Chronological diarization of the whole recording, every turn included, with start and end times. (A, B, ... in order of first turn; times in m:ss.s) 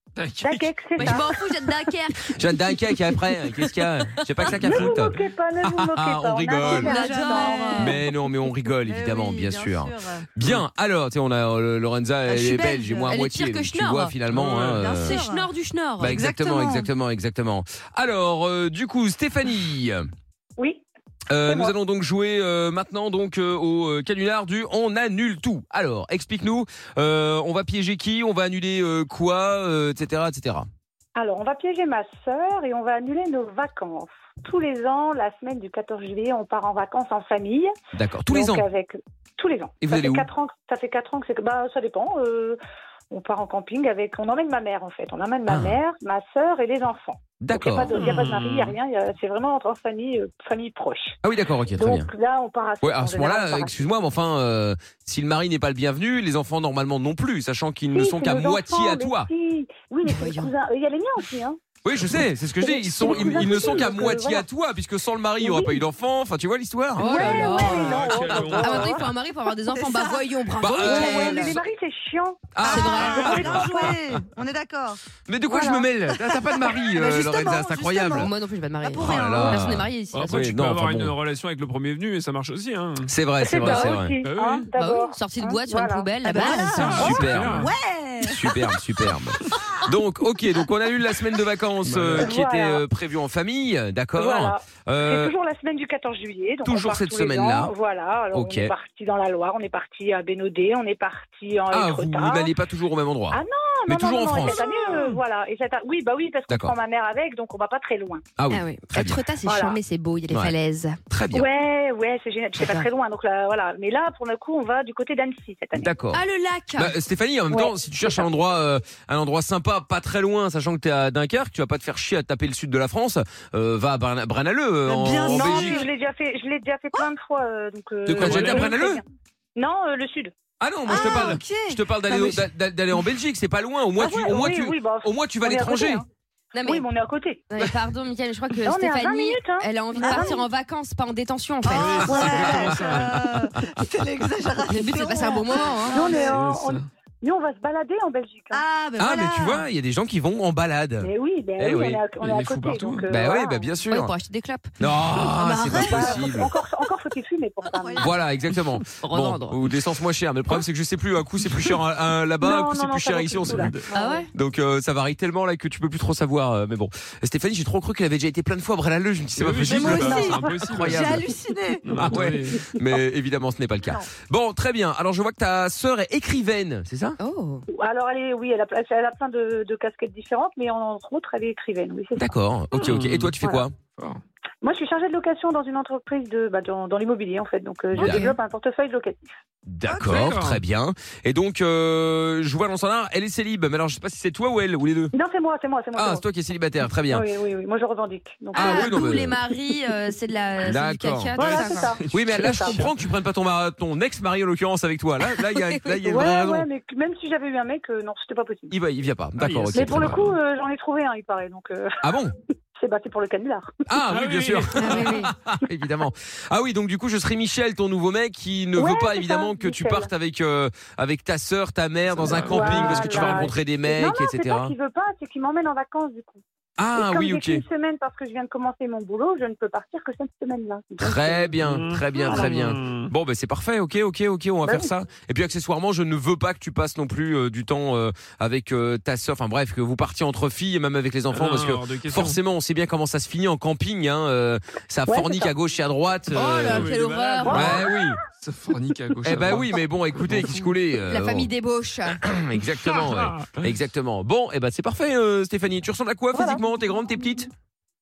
0:00.2-0:00.7 A
0:00.4-0:01.3 B
0:01.0-0:02.4 C
0:02.3-0:06.9 D
0:04.6-0:08.0 B
0:06.6-0:10.3 E
0:06.8-0:08.0 C
0:07.7-0:15.2 D
0:12.3-0:14.2 C
0:14.3-0:14.9 A
0:14.8-0:15.5 E
0:14.9-0:16.3 C
0:16.0-0:20.1 D
0:16.1-0:16.9 E
0:20.6-0:20.8 B
0:21.3-0:30.7 D
0:21.5-0:21.7 B
0:31.2-0:37.7 B
0:37.9-0:38.6 D
0:38.3-0:42.6 B
0:39.8-0:40.3 D
0:43.1-0:51.2 B
0:45.5-0:45.8 D
0:47.4-0:48.0 D
0:47.9-0:48.8 A
0:51.2-0:52.1 D
0:51.8-0:53.7 B
0:52.8-0:59.3 D
0:57.9-1:01.6 B
1:00.0-1:00.5 C
1:01.8-1:07.7 D
1:02.6-1:04.5 B
1:05.4-1:05.8 B
1:07.0-1:11.6 C
1:07.0-1:09.0 B
1:07.4-1:09.0 A
1:08.3-1:08.8 D
1:09.5-1:10.4 E
1:10.6-1:11.6 D
1:10.8-1:12.6 B
1:12.6-1:14.0 D
1:12.6-1:18.3 E
1:12.7-1:13.8 C
1:13.1-1:13.4 A
1:15.3-1:18.3 D
1:18.1-1:20.5 C
1:18.8-1:19.7 E
1:19.0-1:21.1 D
1:20.1-1:23.1 A
1:23.1-1:24.2 D
1:23.4-1:26.1 B
1:23.7-1:24.7 A
1:24.8-1:27.3 C
1:26.2-1:28.6 E
1:26.7-1:27.7 A
1:26.9-1:27.7 D
1:28.2-1:35.3 D
1:31.8-1:32.3 A
1:32.2-1:32.8 B
1:34.2-1:42.5 B
1:36.7-1:37.7 D
1:38.3-1:38.7 D
1:41.7-1:44.6 D
1:43.3-1:48.3 B
1:48.4-1:49.2 D
1:48.5-1:51.0 C
1:49.4-1:49.8 B
1:51.1-1:51.5 D
1:51.3-1:55.9 B
1:52.6-1:52.9 C
1:55.8-1:56.2 D
1:56.1-1:57.0 C
1:56.8-2:05.9 D
1:57.5-1:58.2 B
2:04.9-2:05.9 E
2:05.3-2:09.0 B
2:08.1-2:09.0 D
2:08.2-2:08.6 A
2:09.6-2:10.3 B
2:10.6-2:16.0 D
2:10.9-2:12.5 E
2:14.0-2:16.0 B
2:16.5-2:16.9 C
2:16.6-2:17.4 B
2:17.5-2:22.8 C
2:18.6-2:20.5 B
2:20.0-2:20.3 E
2:21.6-2:26.3 E
2:21.7-2:23.3 A
2:22.0-2:23.6 D
2:24.7-2:26.2 C
2:25.9-2:28.6 B
2:26.3-2:26.8 A
2:28.5-2:29.6 E
2:29.0-2:31.1 D
2:31.0-2:33.7 B
2:31.6-2:32.0 D
2:32.2-2:33.1 A
2:33.1-2:34.1 D
2:33.9-2:34.7 C
2:34.8-2:36.5 D
2:35.4-2:36.2 C
2:35.6-2:36.3 E
2:35.7-2:38.1 B
2:37.7-2:38.0 E
2:38.0-2:43.7 D
2:39.0-2:39.6 C
2:42.4-2:44.3 B
2:43.5-2:43.8 A
2:43.9-2:44.3 C
2:44.3-2:51.3 D
2:49.4-2:51.3 A
2:49.7-2:51.9 E
2:51.8-2:52.7 A
2:52.0-2:57.2 D
2:57.2-2:57.6 C
2:57.7-3:02.4 B
3:02.2-3:03.8 D
3:02.7-3:03.3 A
3:04.0-3:04.2 A
3:04.6-3:09.3 B
3:08.0-3:08.2 D
3:08.0-3:08.4 C
3:09.7-3:15.1 D
3:09.9-3:10.6 A
3:15.1-3:16.2 B
3:16.0-3:17.2 D
3:17.1-3:19.3 B
3:18.5-3:22.0 C
3:18.6-3:19.4 D
3:20.6-3:21.4 D
3:21.4-3:22.8 B
3:21.5-3:22.9 A
3:22.1-3:26.7 D
3:26.1-3:28.7 B
3:28.7-3:30.3 D
3:29.4-3:30.3 A
3:29.7-3:32.0 B
3:32.0-3:32.3 D
3:32.8-3:33.8 B
3:33.9-3:44.7 D
3:34.1-3:35.3 A
3:34.8-3:35.3 C
3:38.8-3:40.1 B
3:42.1-3:43.5 A
3:42.3-3:46.4 B
3:46.8-3:47.6 D
3:47.0-3:51.6 B
3:51.0-4:06.9 D
3:51.6-3:53.1 A
3:52.3-3:52.5 B
4:01.3-4:02.4 A
4:05.1-4:05.5 B
4:06.3-4:07.9 C
4:06.3-4:10.7 A
4:07.5-4:08.0 B
4:07.5-4:08.2 D
4:09.2-4:11.5 D
4:11.0-4:12.2 C
4:12.2-4:17.5 D
4:12.8-4:13.7 A
4:16.3-4:16.6 B